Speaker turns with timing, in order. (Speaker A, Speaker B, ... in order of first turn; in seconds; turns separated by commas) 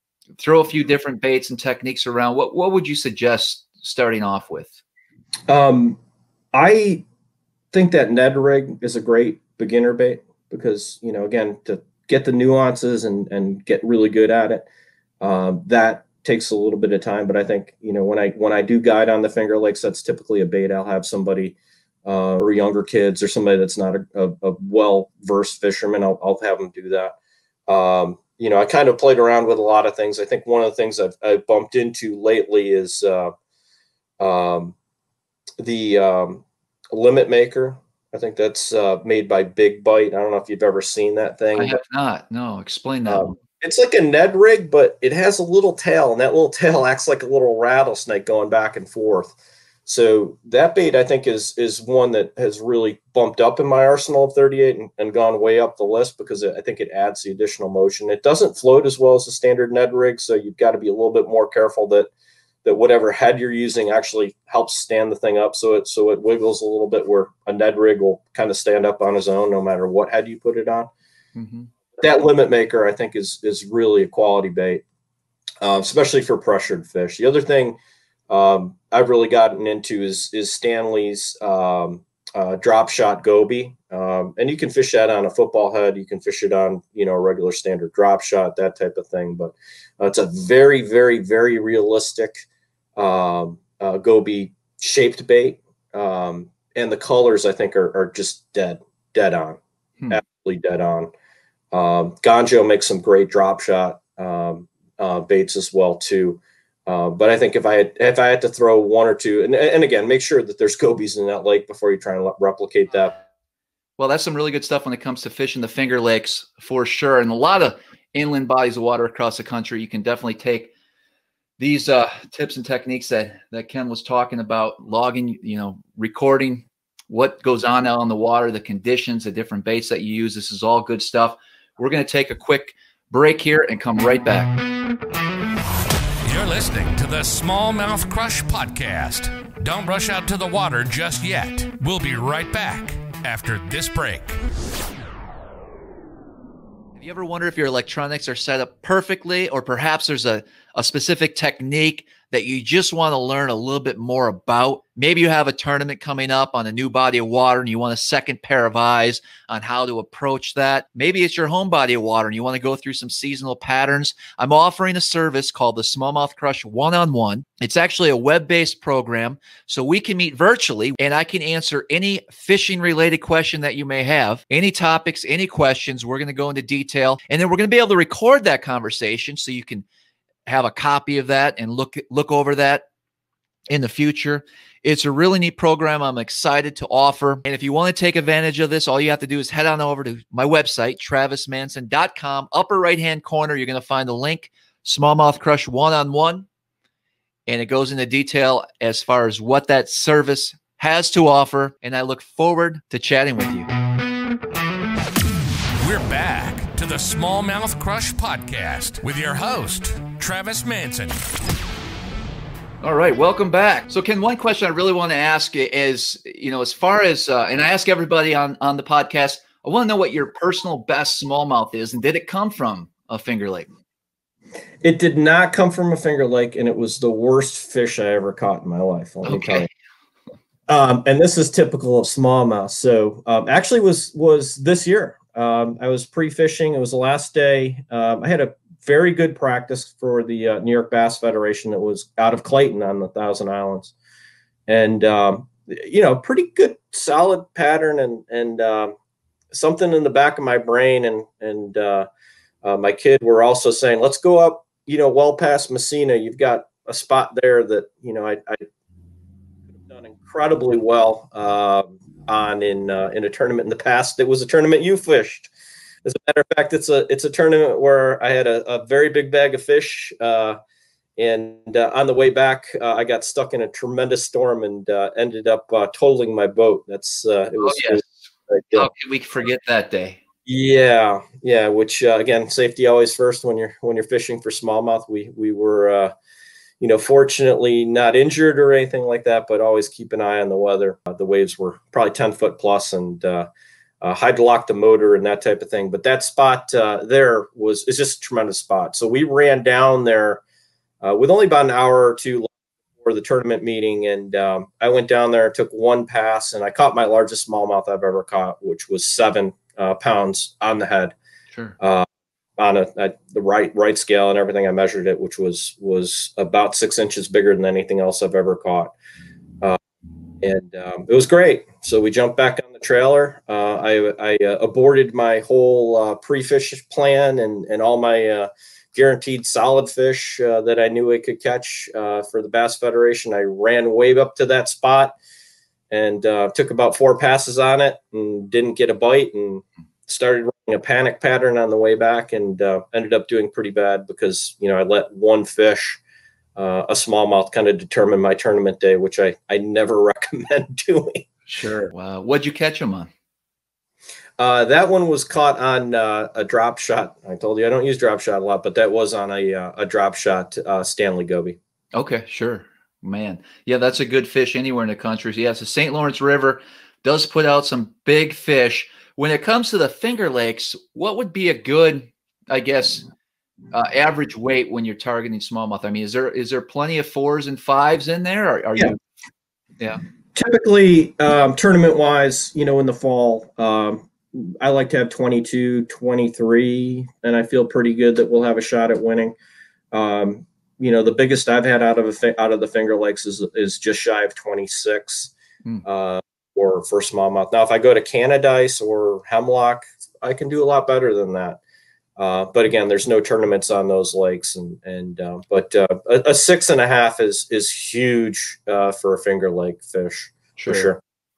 Speaker A: 0.4-4.8, Speaker B: 5.5-6.0, Speaker B: 6.5-7.0, Speaker B: 7.7-14.7, Speaker B: 15.2-27.1, Speaker B: 27.7-33.3, Speaker B: 34.2-34.8, Speaker B: 35.6-41.8, Speaker A: 41.6-43.4, Speaker B: 43.1-49.4, Speaker B: 49.9-62.1, Speaker B: 62.6-70.9, Speaker A: 71.4-71.7, Speaker B: 72.0-74.8, Speaker B: 75.6-77.8, Speaker B: 78.3-92.4, Speaker B: 93.0-101.1, Speaker B: 101.7-113.2, Speaker A: 114.0-120.7, Speaker A: 121.6-134.6, Speaker C: 136.2-144.4, Speaker A: 147.0-179.9, Speaker A: 180.5-182.8, Speaker A: 183.7-196.5, Speaker A: 197.5-203.7, Speaker C: 205.8-211.2, Speaker A: 212.8-223.7, Speaker B: 224.8-229.7, Speaker A: 229.2-229.7, Speaker B: 230.7-243.9, Speaker B: 244.7-248.9, Speaker B: 249.5-252.1, Speaker B: 252.6-258.6, Speaker B: 259.7-265.5, Speaker B: 266.1-270.6, Speaker B: 271.2-278.9, Speaker A: 277.6-278.2, Speaker A: 278.7-280.2, Speaker B: 280.5-286.1, Speaker B: 286.8-293.5, Speaker B: 294.0-300.4, Speaker B: 301.0-311.1, Speaker B: 311.8-312.1, Speaker B: 312.6-318.9, Speaker B: 320.4-335.2, Speaker B: 335.9-346.0, Speaker B: 346.6-351.2, Speaker A: 351.5-353.1, Speaker B: 354.4-361.6, Speaker A: 361.9-373.1, Speaker A: 373.7-379.0, Speaker B: 380.4-389.4, Speaker B: 389.9-395.3, Speaker B: 395.9-401.6, Speaker B: 402.2-411.0, Speaker A: 410.6-410.9